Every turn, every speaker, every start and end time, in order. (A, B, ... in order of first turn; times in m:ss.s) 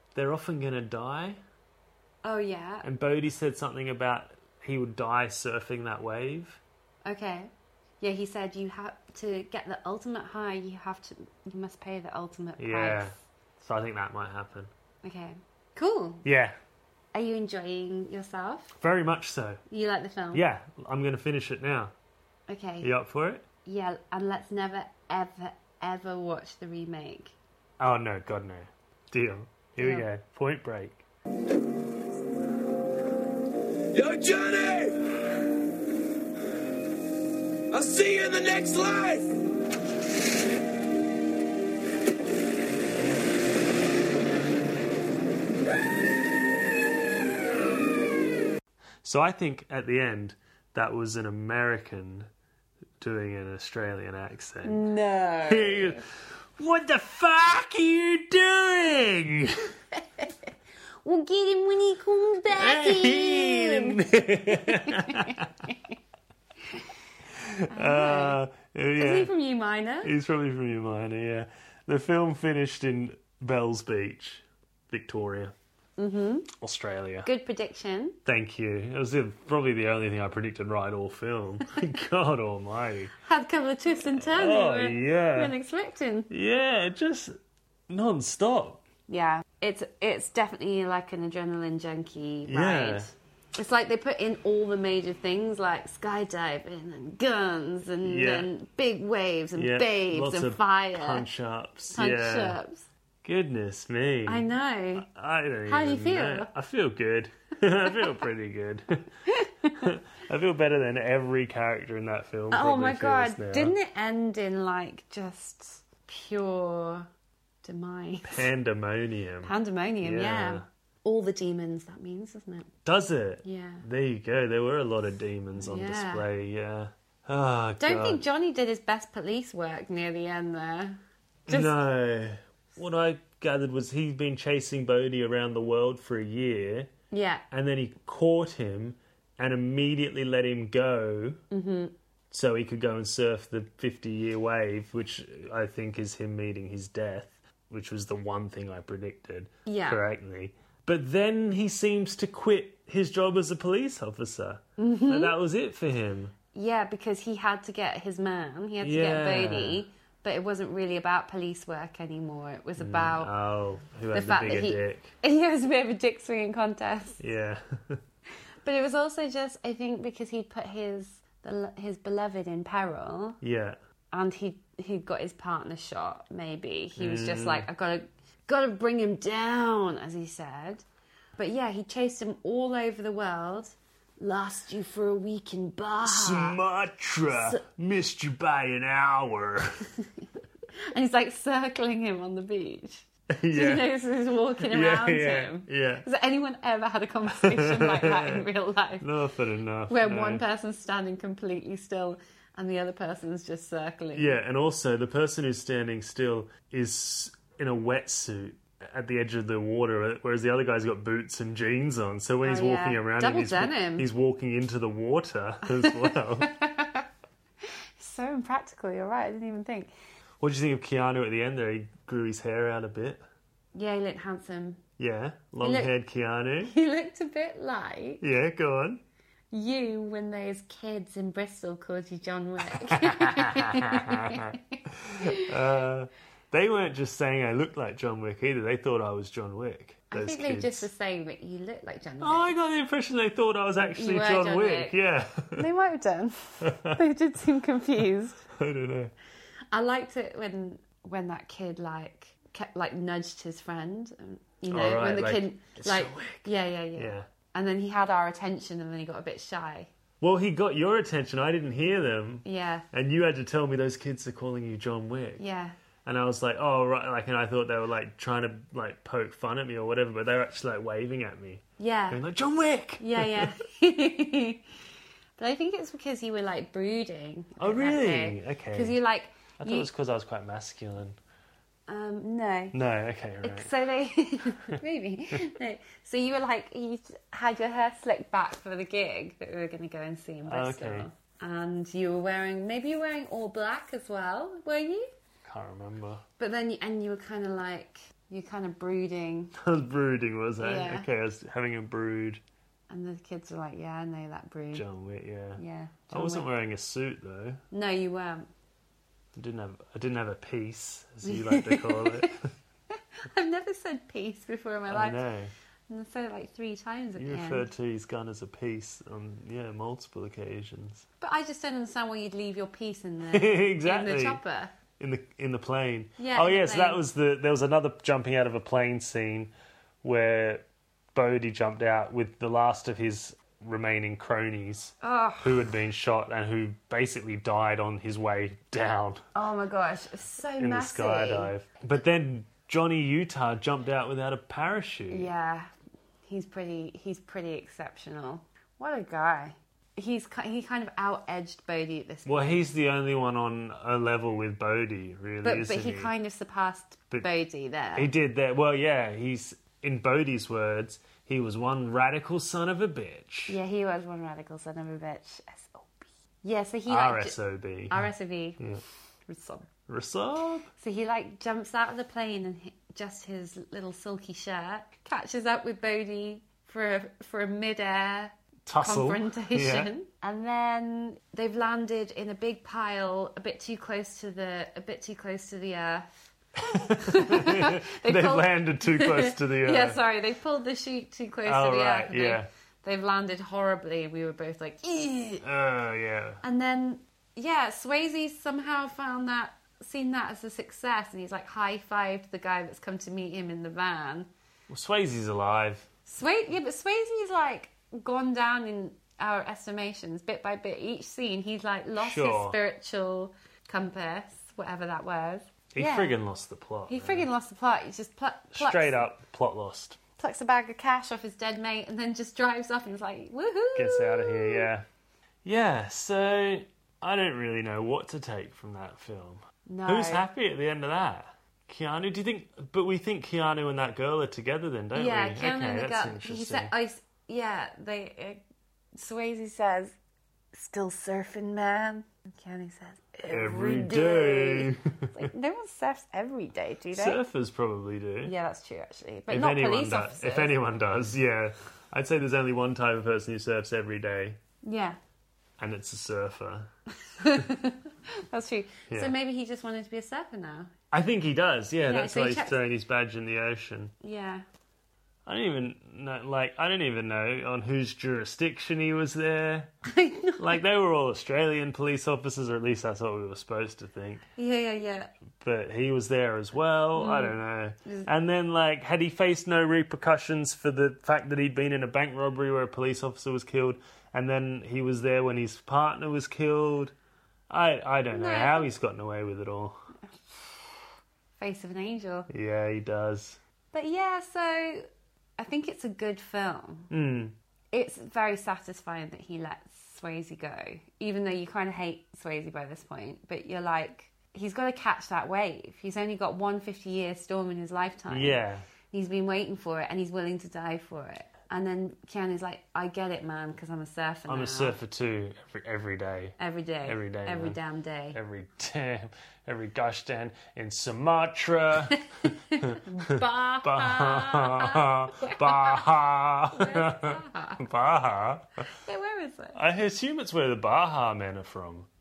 0:00.1-0:01.4 A
0:02.2-0:02.9 B
0:02.8-0:06.6 A
0:07.0-0:13.2 B
0:12.6-0:14.7 A
0:15.0-0:16.2 B
0:16.2-0:16.6 A
0:17.1-0:18.7 B
0:18.7-0:19.6 A
0:19.7-0:20.4 B
0:20.3-0:21.9 A
0:22.5-0:22.9 B
0:22.8-0:23.4 A
0:23.6-0:27.3 B
0:27.8-0:31.0 A
0:29.8-0:30.1 B
0:33.9-0:35.2 C
0:37.7-0:39.3 C
0:49.0-0:52.3 A
0:53.0-0:54.8 A
0:54.6-0:56.0 B
0:55.4-0:56.0 A
0:56.6-0:59.7 A
1:01.0-1:05.8 B
1:02.5-1:05.5 A
1:07.4-1:09.3 A
1:07.6-1:08.4 B
1:09.0-1:10.1 B
1:10.0-1:15.5 A
1:16.0-1:16.5 B
1:16.5-1:17.3 A
1:17.2-1:18.2 B
1:18.2-1:23.1 A
1:23.2-1:26.3 B
1:24.1-1:25.5 A
1:26.3-1:27.3 A
1:27.9-1:28.8 A
1:29.1-1:41.3 B
1:32.5-1:33.1 A
1:38.0-1:38.5 A
1:39.6-1:42.6 A
1:41.9-1:42.9 B
1:43.2-1:49.1 A
1:44.3-1:45.1 B
1:45.7-1:46.5 B
1:49.3-1:49.9 B
1:49.8-1:53.8 A
1:52.5-1:57.1 B
1:57.6-1:58.5 B
1:58.2-2:00.6 A
1:59.4-2:02.7 B
2:02.8-2:08.2 A
2:03.4-2:03.8 B
2:05.6-2:06.3 B
2:07.8-2:11.8 B
2:11.5-2:16.9 A
2:17.1-2:17.4 B
2:17.5-2:21.4 A
2:21.5-2:21.9 B
2:22.3-2:36.3 A
2:29.6-2:30.0 B
2:34.8-2:35.3 B
2:36.5-2:43.3 B
2:38.8-2:39.8 A
2:42.8-2:45.1 A
2:44.1-2:47.2 B
2:47.2-2:48.0 A
2:48.6-2:53.4 B
2:53.4-2:53.8 A
2:54.1-3:00.8 B
2:57.0-2:57.7 A
3:01.4-3:06.6 B
3:06.0-3:09.8 A
3:07.3-3:07.6 B
3:10.9-3:19.1 B
3:13.3-3:13.9 A
3:14.6-3:16.0 A
3:17.3-3:18.4 A
3:19.0-3:20.4 A
3:19.9-3:24.3 B
3:24.1-3:36.5 A
3:32.4-3:34.1 B
3:35.7-3:37.0 B
3:38.0-3:39.9 B
3:40.4-3:43.2 A
3:43.7-3:44.8 B
3:45.0-3:46.7 A
3:45.6-3:45.9 B
3:46.6-3:48.2 B
3:48.2-3:49.0 A
3:49.5-3:55.5 B
3:52.7-4:00.9 A
4:00.1-4:02.5 B
4:02.2-4:05.7 A
4:03.9-4:05.0 B
4:05.5-4:08.4 B
4:06.6-4:07.0 A
4:08.5-4:09.1 A
4:09.7-4:19.9 B
4:14.7-4:17.3 A
4:20.2-4:25.4 A
4:22.4-4:22.9 B
4:25.4-4:25.8 B
4:26.0-4:33.6 A
4:31.8-4:32.2 B
4:33.0-4:34.6 B
4:35.4-4:39.9 B
4:37.6-4:39.0 A
4:39.6-4:41.2 A
4:41.9-4:42.8 B
4:42.7-4:43.7 A
4:43.4-4:55.1 B
4:50.5-4:51.1 A
4:55.4-4:56.2 A
4:56.4-4:59.5 B
4:59.6-5:02.4 A
5:00.6-5:01.1 B
5:02.9-5:04.9 B
5:04.7-5:07.6 A
5:05.6-5:06.5 B
5:07.7-5:08.5 B
5:09.3-5:12.4 A
5:11.2-5:12.3 B
5:12.9-5:15.2 B
5:14.9-5:15.5 A
5:15.9-5:17.7 B
5:17.2-5:21.0 A
5:21.2-5:24.7 B
5:23.3-5:24.4 A
5:25.0-5:39.2 A
5:26.2-5:27.0 B
5:35.0-5:35.6 B
5:39.3-5:41.5 B
5:40.6-5:45.3 A
5:45.1-5:45.7 B
5:46.3-5:52.6 B
5:52.3-5:56.1 A
5:55.4-5:58.1 B
5:57.9-6:03.6 A
6:03.5-6:07.4 B
6:06.9-6:08.8 A
6:07.9-6:08.6 B
6:09.3-6:09.7 B
6:09.9-6:10.7 A
6:10.8-6:26.1 B
6:18.6-6:19.9 A
6:26.6-6:35.4 B
6:26.7-6:30.0 A
6:31.4-6:32.5 A
6:35.4-6:36.4 A
6:36.4-6:44.3 B
6:44.7-6:45.9 A
6:46.1-6:56.2 B
6:52.0-6:52.6 A
6:55.7-6:57.3 A
6:56.9-6:59.1 B
6:58.5-7:00.0 A
7:00.2-7:04.7 B
7:03.7-7:04.9 A
7:05.4-7:16.7 A
7:09.7-7:10.3 B
7:14.9-7:18.4 B
7:18.9-7:19.9 B
7:20.5-7:27.2 B
7:23.3-7:25.3 A
7:26.9-7:28.3 A
7:28.2-7:30.6 B
7:29.3-7:34.4 A
7:34.6-7:35.0 B
7:35.6-7:36.7 A
7:37.2-7:40.7 B
7:38.9-7:39.1 A
7:40.9-7:43.9 A
7:41.9-7:42.6 B
7:44.0-7:44.4 B
7:45.3-7:49.7 A
7:49.9-7:50.6 B
7:50.4-7:54.2 A
7:54.4-7:55.1 B
7:55.4-8:06.9 A
7:56.9-7:58.1 B
8:07.5-8:09.8 A
8:08.1-8:08.7 B
8:10.1-8:10.4 B
8:11.4-8:12.3 B
8:12.3-8:13.4 A
8:13.7-8:14.9 B
8:15.4-8:16.9 B
8:16.9-8:17.3 A
8:17.7-8:34.8 B
8:28.1-8:28.6 A
8:34.3-8:37.6 A
8:36.4-8:38.2 B
8:38.1-8:48.6 A
8:42.2-8:45.8 B
8:46.5-8:47.6 B
8:48.7-8:49.6 B
8:49.5-8:51.9 A